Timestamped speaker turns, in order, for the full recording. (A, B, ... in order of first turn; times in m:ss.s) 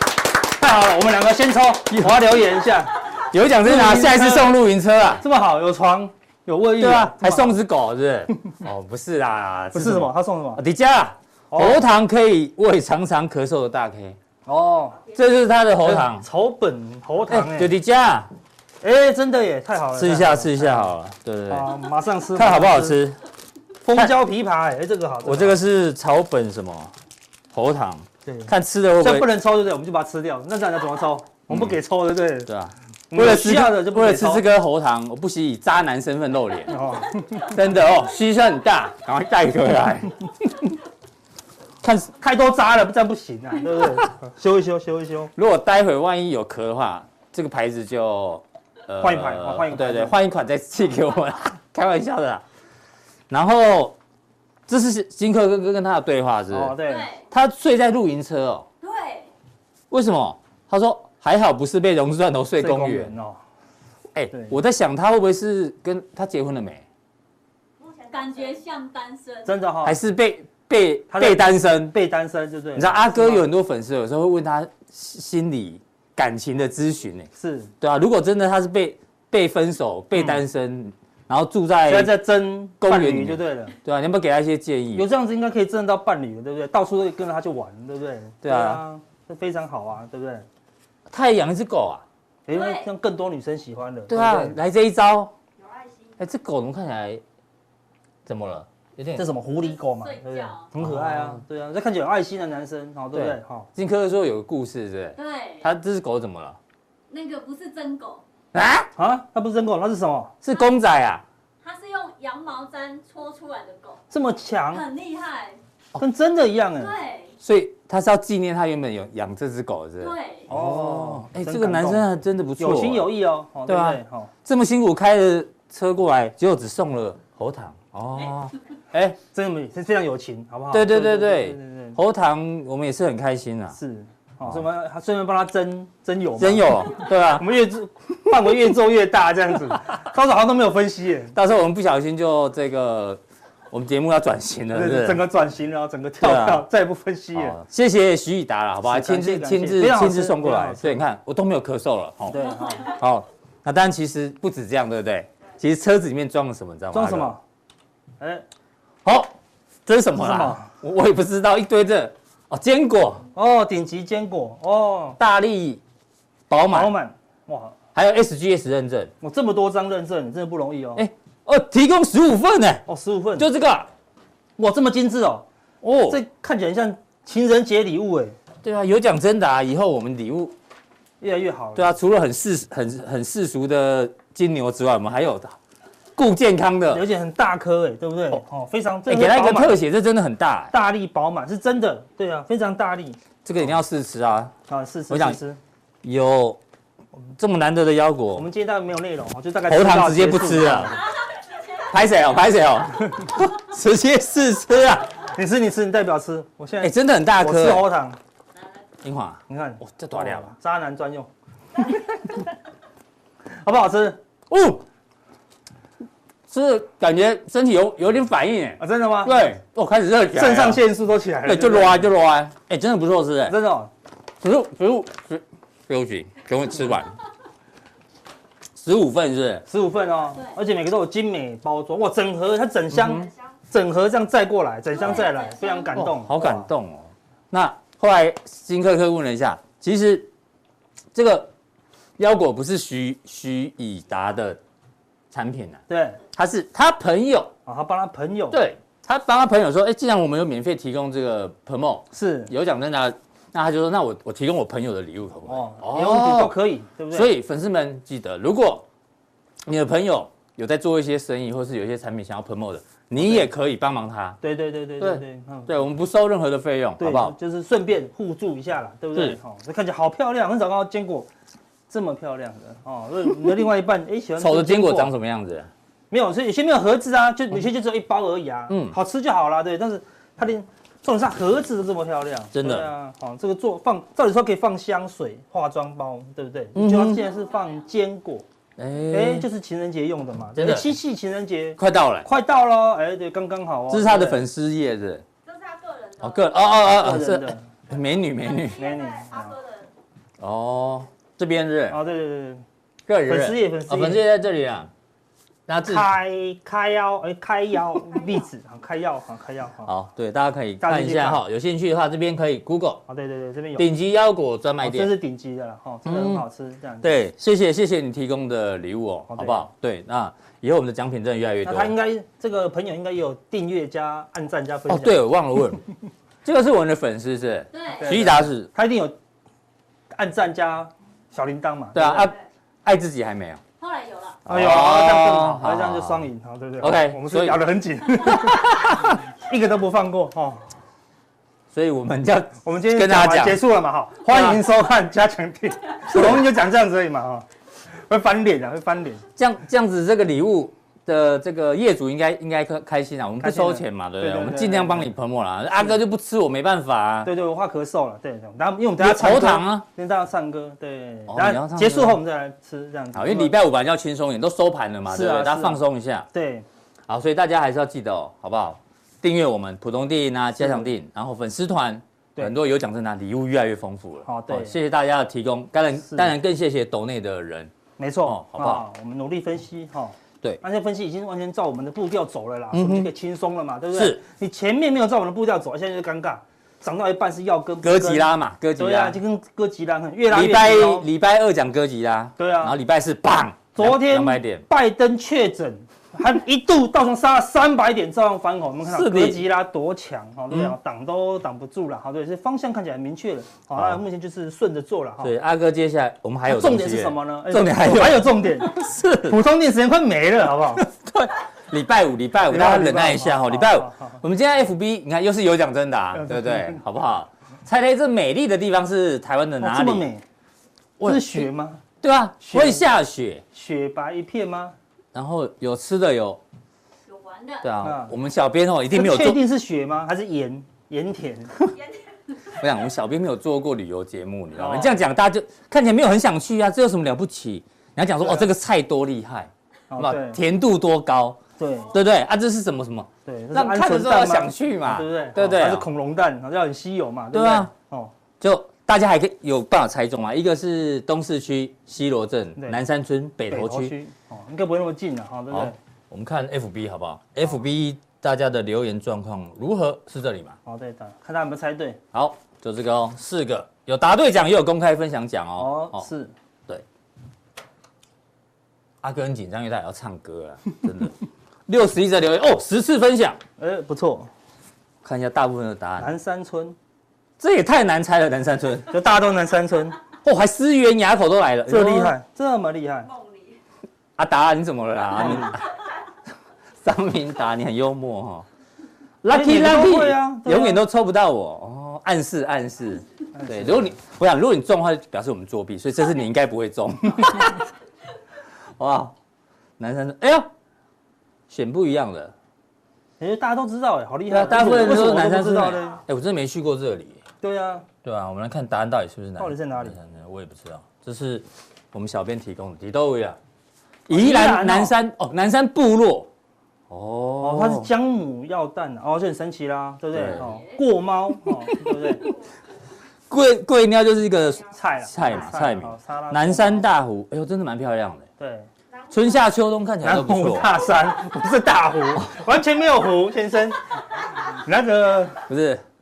0:00.6-0:03.0 A
0:01.9-0:02.2 B
0:03.2-0:05.2 B
0:03.6-0:04.5 A
0:05.2-0:07.6 A
0:06.8-0:14.2 B
0:09.7-0:10.6 A
0:11.5-0:11.8 A
0:14.5-0:15.0 A
0:15.1-0:16.3 B
0:15.8-0:17.7 A
0:17.3-0:18.3 B
0:18.8-0:20.9 A
0:19.9-0:21.7 B
0:21.5-0:23.0 A
0:22.4-0:23.2 B
0:23.8-0:25.6 A
0:25.2-0:26.9 B
0:27.5-0:29.3 B
0:28.3-0:32.5 A
0:31.5-0:31.8 B
0:32.5-0:36.8 B
0:33.1-0:34.4 A
0:36.7-0:37.6 A
0:37.4-0:40.7 B
0:41.8-0:42.1 B
0:42.2-0:45.3 A
0:45.4-0:52.4 B
0:49.0-0:50.2 A
0:53.3-0:54.0 B
0:54.7-0:56.8 B
0:56.5-0:57.1 A
0:56.8-0:57.3 C
0:57.3-0:58.7 B
0:58.8-0:59.3 C
0:59.9-1:03.1 B
1:02.6-1:03.4 A
1:04.1-1:06.8 B
1:08.0-1:09.6 C
1:09.4-1:10.0 A
1:09.8-1:12.0 B
1:11.1-1:13.5 A
1:12.8-1:17.3 B
1:17.4-1:17.7 A
1:17.8-1:22.2 B
1:21.9-1:23.7 A
1:22.8-1:25.1 B
1:24.9-1:30.5 A
1:28.4-1:28.8 B
1:31.1-1:32.0 B
1:32.5-1:34.6 A
1:32.5-1:32.9 C
1:34.1-1:35.3 B
1:36.2-1:37.2 B
1:38.3-1:39.3 B
1:39.2-1:43.7 A
1:39.6-1:40.7 C
1:40.8-1:41.4 B
1:43.1-1:46.6 B
1:45.2-1:45.7 C
1:47.1-1:48.2 C
1:48.5-1:48.9 B
1:49.0-1:50.3 A
1:50.4-1:51.2 B
1:51.6-1:54.0 C
1:54.1-1:54.8 A
1:54.7-1:55.6 C
1:56.0-1:56.9 A
1:56.8-1:57.4 C
1:57.4-2:03.1 B
2:00.0-2:00.5 C
2:00.5-2:04.3 A
2:03.7-2:09.2 B
2:09.1-2:12.0 A
2:10.7-2:13.8 B
2:13.7-2:21.4 A
2:16.4-2:17.5 B
2:21.3-2:25.2 B
2:24.7-2:27.6 A
2:26.2-2:26.7 B
2:27.4-2:37.3 B
2:28.8-2:31.0 A
2:32.3-2:32.9 A
2:36.9-2:37.4 A
2:38.2-2:38.4 A
2:39.0-2:39.3 B
2:39.9-2:43.2 B
2:40.2-2:40.7 A
2:43.4-2:45.2 A
2:45.2-2:45.8 B
2:46.5-2:46.9 B
2:46.7-2:47.8 A
2:48.0-2:49.1 B
2:49.2-2:51.1 A
2:51.0-2:52.8 B
2:52.9-2:53.5 A
2:53.4-2:53.9 B
2:54.6-2:55.5 A
2:55.8-2:56.2 B
2:56.0-2:58.4 A
2:58.6-3:00.5 B
3:01.2-3:01.9 A
3:01.8-3:05.6 B
3:06.2-3:07.0 B
3:06.9-3:09.8 A
3:09.1-3:10.7 B
3:10.7-3:13.2 A
3:13.4-3:14.5 B
3:14.7-3:15.6 A
3:15.1-3:15.4 B
3:16.0-3:16.6 B
3:17.4-3:18.5 B
3:18.3-3:21.0 A
3:19.7-3:21.0 B
3:21.9-3:25.2 B
3:25.3-3:28.2 A
3:26.8-3:27.9 B
3:29.0-3:30.5 B
3:29.5-3:31.3 A
3:31.8-3:32.4 A
3:33.6-3:34.2 A
3:34.5-3:34.8 B
3:36.5-3:40.8 B
3:38.8-3:39.5 A
3:40.3-3:42.1 A
3:41.4-3:43.6 B
3:43.5-3:43.9 A
3:44.4-3:47.2 B
3:48.8-3:49.7 B
3:49.7-3:56.7 A
3:52.9-3:53.3 B
3:55.0-3:55.9 C
3:55.9-4:00.3 B
4:01.1-4:01.5 B
4:02.2-4:04.6 B
4:05.3-4:05.8 B
4:05.9-4:06.2 A
4:06.3-4:07.5 B
4:07.7-4:08.6 A
4:08.5-4:16.6 B
4:12.1-4:12.5 A
4:15.5-4:17.3 A
4:17.1-4:18.8 B
4:19.6-4:24.4 B
4:23.2-4:23.5 A
4:24.4-4:25.8 A
4:25.0-4:27.4 B
4:27.0-4:31.3 A
4:31.9-4:35.1 A
4:34.4-4:35.7 B
4:36.1-4:48.4 A
4:38.7-4:39.0 B
4:42.5-4:42.9 B
4:46.8-4:47.2 B
4:48.8-4:49.5 B
4:49.1-4:54.4 A
4:50.6-4:50.9 B
4:51.8-4:52.3 B
4:53.9-4:55.2 B
4:56.2-4:58.8 B
4:56.8-4:57.7 A
4:58.8-4:59.6 A
5:00.4-5:02.0 B
5:01.9-5:02.6 A
5:03.1-5:04.9 B
5:03.3-5:04.2 A
5:05.7-5:06.1 B
5:05.8-5:09.9 A
5:09.8-5:13.0 B
5:10.8-5:11.4 A
5:13.1-5:13.9 A
5:13.8-5:15.1 B
5:14.8-5:17.2 A
5:16.1-5:16.4 B
5:17.0-5:21.9 B
5:19.3-5:19.6 A
5:21.6-5:25.2 A
5:24.9-5:25.8 B
5:26.4-5:28.7 B
5:27.7-5:28.1 C
5:28.0-5:29.2 A
5:30.1-5:32.3 A
5:31.9-5:33.6 B
5:33.8-5:34.4 C
5:34.5-5:36.2 B
5:34.5-5:40.6 A
5:36.8-5:37.6 B
5:38.2-5:39.2 B
5:41.7-5:43.6 B
5:42.6-5:47.5 A
5:44.3-5:44.6 B
5:46.0-5:46.5 B
5:48.1-5:49.2 A
5:49.4-5:57.3 B
5:53.4-5:55.1 A
5:57.2-6:03.6 A
5:59.0-5:59.9 B
6:01.3-6:02.2 B
6:03.1-6:06.3 B
6:05.1-6:05.8 A
6:06.3-6:06.6 A
6:07.1-6:17.7 B
6:10.6-6:10.9 A
6:14.3-6:14.8 A
6:16.0-6:16.3 A
6:18.0-6:31.1 A
6:18.2-6:18.8 B
6:22.7-6:23.1 B
6:23.9-6:24.2 B
6:27.8-6:29.2 B
6:30.3-6:34.6 B
6:32.4-6:32.8 A
6:33.8-6:45.3 A
6:38.9-6:39.4 B
6:43.8-6:44.0 B
6:45.2-6:49.4 B
6:46.5-6:50.9 A
6:50.8-7:00.1 B
6:52.5-6:54.2 A
6:56.2-6:56.8 A
6:59.6-7:00.2 A
7:01.0-7:01.5 B
7:01.0-7:01.8 A
7:02.0-7:03.4 B
7:02.4-7:02.9 A
7:03.5-7:04.8 A
7:05.1-7:06.4 B
7:07.1-7:07.7 C
7:07.6-7:09.4 B
7:07.8-7:08.1 A
7:08.9-7:11.6 A
7:12.5-7:25.9 B
7:14.6-7:15.0 A
7:18.2-7:18.5 A
7:19.9-7:20.4 A
7:21.6-7:21.9 A
7:23.3-7:28.1 A
7:27.3-7:27.7 B
7:28.4-7:33.9 B
7:33.5-7:35.8 A
7:35.5-7:40.6 B
7:40.7-7:42.0 A
7:42.1-7:46.1 B
7:45.6-7:46.3 A
7:49.0-7:51.2 B
7:51.7-7:53.4 B
7:53.6-7:54.3 A
7:55.0-7:56.1 B
7:56.0-7:56.8 A
7:57.4-7:59.0 B
7:58.9-8:00.0 A
8:00.2-8:02.2 B
8:01.7-8:03.1 A
8:04.2-8:05.7 B
8:05.2-8:05.6 A
8:06.8-8:08.5 B
8:09.2-8:17.7 B
8:09.3-8:10.8 A
8:13.4-8:14.0 A
8:18.8-8:19.1 B
8:19.8-8:20.5 B
8:21.5-8:22.3 B
8:23.2-8:26.0 A
8:24.3-8:27.2 B
8:27.4-8:27.9 A
8:28.0-8:33.4 B
8:29.4-8:30.0 A
8:34.1-8:36.3 B
8:34.1-8:35.0 A
8:36.9-8:37.9 B
8:37.4-8:42.3 A
8:40.1-8:40.5 B
8:40.3-8:40.8 C
8:41.7-8:42.3 B
8:43.3-8:48.3 B
8:44.7-8:46.9 A
8:48.4-8:48.7 A
8:49.1-8:50.8 B
8:50.0-8:55.5 A
8:55.5-8:55.8 B